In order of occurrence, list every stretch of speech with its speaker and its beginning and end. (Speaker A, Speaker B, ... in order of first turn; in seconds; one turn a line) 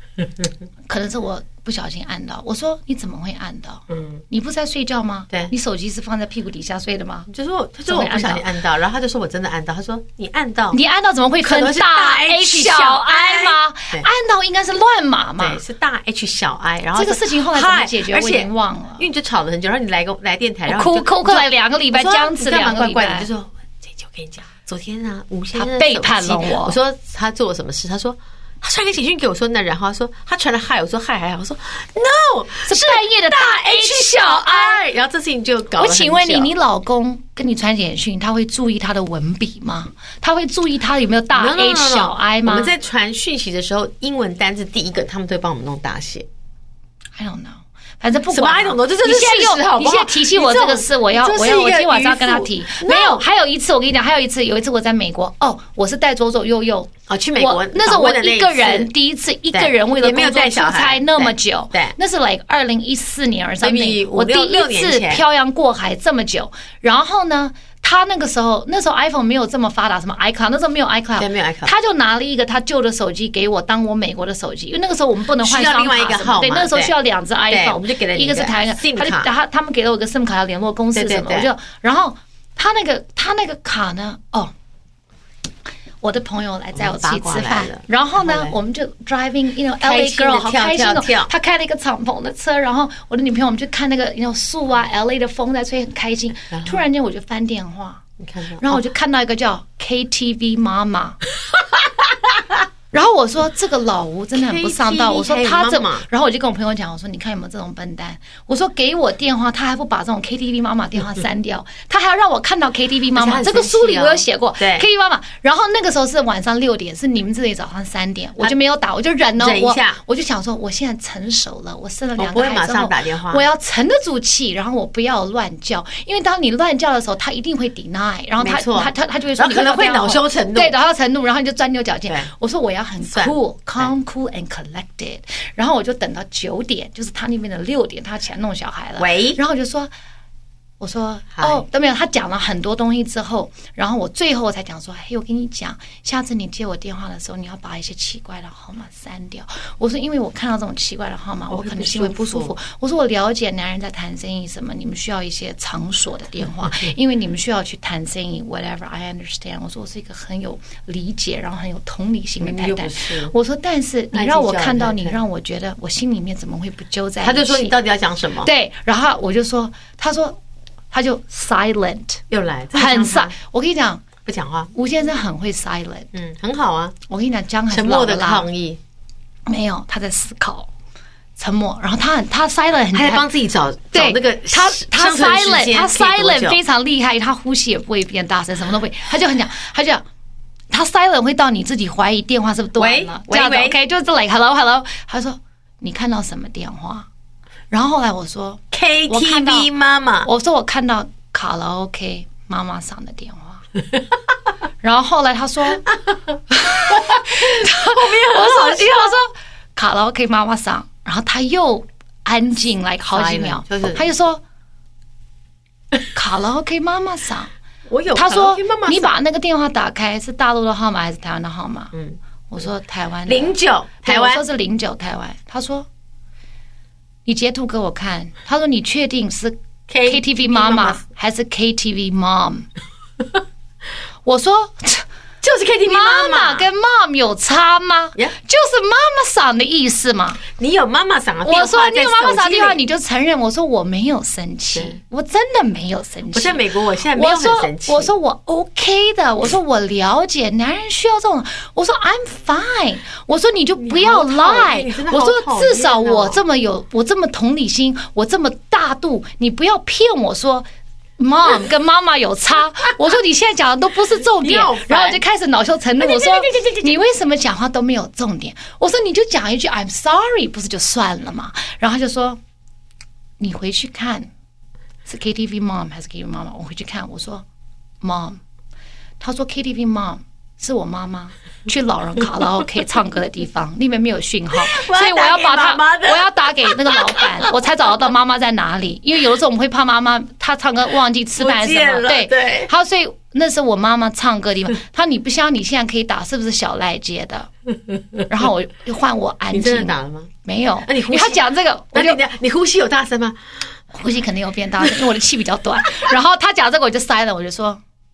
Speaker A: 0.9-7.3
Speaker B: 3.9-4.2
Speaker B: 7.3-10.8
Speaker A: 7.9-8.5
Speaker A: 10.7-15.6
Speaker B: 11.4-14.1
Speaker B: 15.4-36.5
Speaker A: 16.9-19.1
Speaker A: 20.7-23.3
Speaker A: 25.6-26.8
Speaker A: 32.7-34.9
Speaker A: 35.8-42.7
Speaker B: 41.3-46.3
Speaker A: 47.2-84.5
Speaker B: 48.3-53.2
Speaker B: 57.1-58.9
Speaker B: 59.5-62.0
Speaker B: 63.6-65.2
Speaker B: 71.2-71.7
Speaker B: 75.4-77.0
Speaker B: 77.5-79.3
Speaker B: 81.0-81.5
Speaker A: 86.0-98.0
Speaker B: 86.7-88.5
Speaker B: 89.8-91.3
Speaker B: 96.5-96.8
Speaker B: 98.2-98.8
Speaker A: 98.6-101.2
Speaker B: 101.7-102.5
Speaker A: 102.9-139.9
Speaker B: 104.3-106.0
Speaker B: 113.1-114.9
Speaker B: 119.4-120.0
Speaker B: 122.2-123.4
Speaker B: 128.4-130.7
Speaker B: 133.1-133.9
Speaker B: 139.0-139.4
Speaker A: 140.8-167.8
Speaker B: 141.3-141.6
Speaker B: 151.5-152.6
Speaker B: 162.4-163.3
Speaker B: 164.1-165.2
Speaker B: 167.2-168.5
Speaker A: 168.4-170.4
Speaker A: 170.9-172.2
Speaker B: 172.3-173.3
Speaker A: 172.7-174.1
Speaker B: 174.2-174.7
Speaker A: 174.8-176.1
Speaker B: 176.1-177.0
Speaker A: 177.1-178.5
Speaker B: 177.7-178.8
Speaker A: 179.5-180.7
Speaker A: 181.4-183.3
Speaker B: 182.9-186.6
Speaker A: 183.9-190.0
Speaker A: 190.7-197.1
Speaker B: 192.8-193.8
Speaker A: 197.7-199.7
Speaker B: 198.7-200.3
Speaker A: 200.2-203.6
Speaker A: 204.8-205.9
Speaker B: 205.9-206.2
Speaker A: 206.5-214.4
Speaker B: 206.9-209.2
Speaker B: 213.1-214.1
Speaker A: 216.1-217.5
Speaker B: 217.9-219.2
Speaker A: 218.1-221.9
Speaker A: 222.5-225.9
Speaker B: 223.3-224.4
Speaker A: 227.3-232.7
Speaker B: 229.9-231.0
Speaker A: 234.2-235.1
Speaker B: 235.4-236.7
Speaker A: 235.8-240.4
Speaker B: 240.5-242.8
Speaker A: 241.4-260.7
Speaker B: 244.7-245.0
Speaker B: 246.3-248.1
Speaker B: 253.8-256.4
Speaker A: 261.2-272.4
Speaker B: 264.4-265.2
Speaker B: 266.0-267.0
Speaker A: 273.4-274.3
Speaker A: 275.1-277.4
Speaker A: 278.0-278.4
Speaker A: 279.2-297.5
Speaker B: 284.5-287.6
Speaker B: 291.4-292.7
Speaker B: 297.9-298.2
Speaker A: 298.3-302.2
Speaker B: 299.5-300.3
Speaker B: 300.9-303.4
Speaker A: 303.9-307.8